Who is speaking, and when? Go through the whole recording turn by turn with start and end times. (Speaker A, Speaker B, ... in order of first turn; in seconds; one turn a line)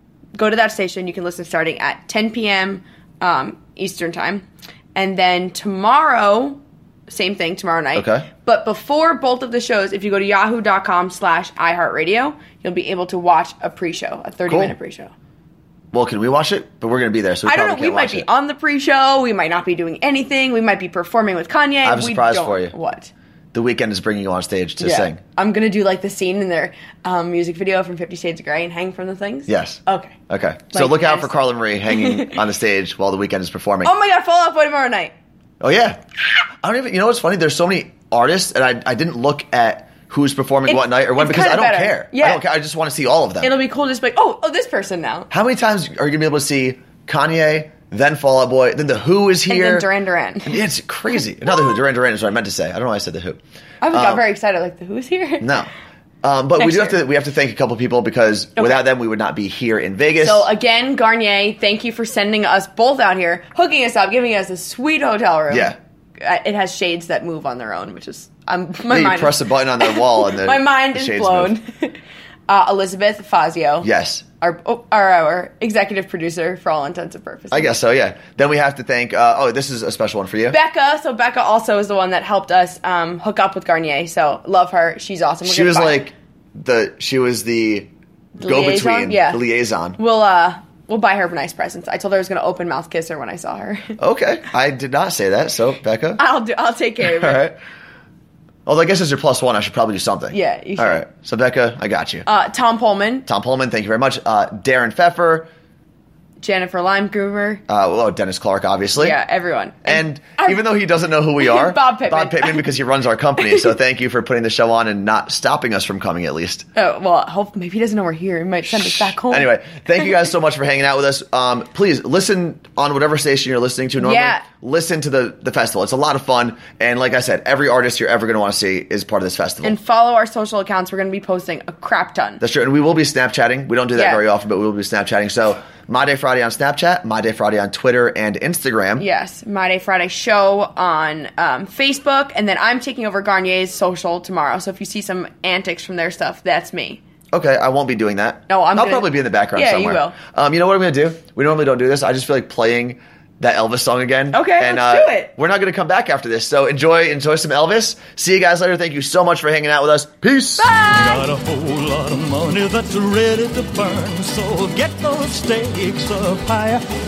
Speaker A: 0.3-15.1
Speaker B: 8.0-8.3
Speaker B: 14.5-14.7
Speaker B: 15.9-18.3
Speaker A: 17.4-23.1
Speaker B: 21.8-22.8
Speaker B: 23.5-25.2
Speaker A: 24.8-30.2
Speaker B: 29.5-33.9
Speaker A: 30.7-31.4
Speaker A: 31.9-32.4
Speaker A: 33.8-35.1
Speaker B: 35.6-43.5
Speaker A: 40.7-42.4
Speaker A: 43.4-45.3
Speaker B: 45.3-49.9
Speaker A: 49.5-50.6
Speaker B: 50.5-53.4
Speaker A: 53.8-55.5
Speaker B: 53.9-54.2
Speaker B: 55.4-55.7
Speaker B: 56.2-60.5
Speaker A: 56.6-57.0
Speaker A: 58.6-58.8
Speaker A: 60.2-72.0
Speaker B: 65.5-65.8
Speaker B: 68.9-71.6
Speaker A: 72.5-73.9
Speaker B: 73.8-74.2
Speaker A: 74.4-77.8
Speaker B: 77.5-80.6
Speaker A: 80.5-86.1
Speaker B: 85.4-90.0
Speaker A: 88.4-89.4
Speaker A: 90.0-94.0
Speaker B: 94.0-96.2
Speaker A: 96.2-97.5
Speaker B: 97.0-97.6
Speaker B: 98.7-102.3
Speaker A: 100.3-101.0
Speaker A: 102.3-103.3
Speaker B: 103.3-105.5
Speaker A: 106.4-107.6
Speaker B: 107.7-109.2
Speaker A: 109.0-110.6
Speaker B: 109.8-116.7
Speaker A: 111.4-112.7
Speaker A: 116.8-119.5
Speaker B: 118.7-129.8
Speaker A: 124.0-124.4
Speaker A: 129.6-132.4
Speaker B: 132.4-139.1
Speaker A: 133.9-134.2
Speaker A: 139.0-147.0
Speaker B: 147.3-160.7
Speaker A: 148.5-150.2
Speaker A: 154.3-155.3
Speaker A: 160.6-161.3
Speaker C: 160.8-166.8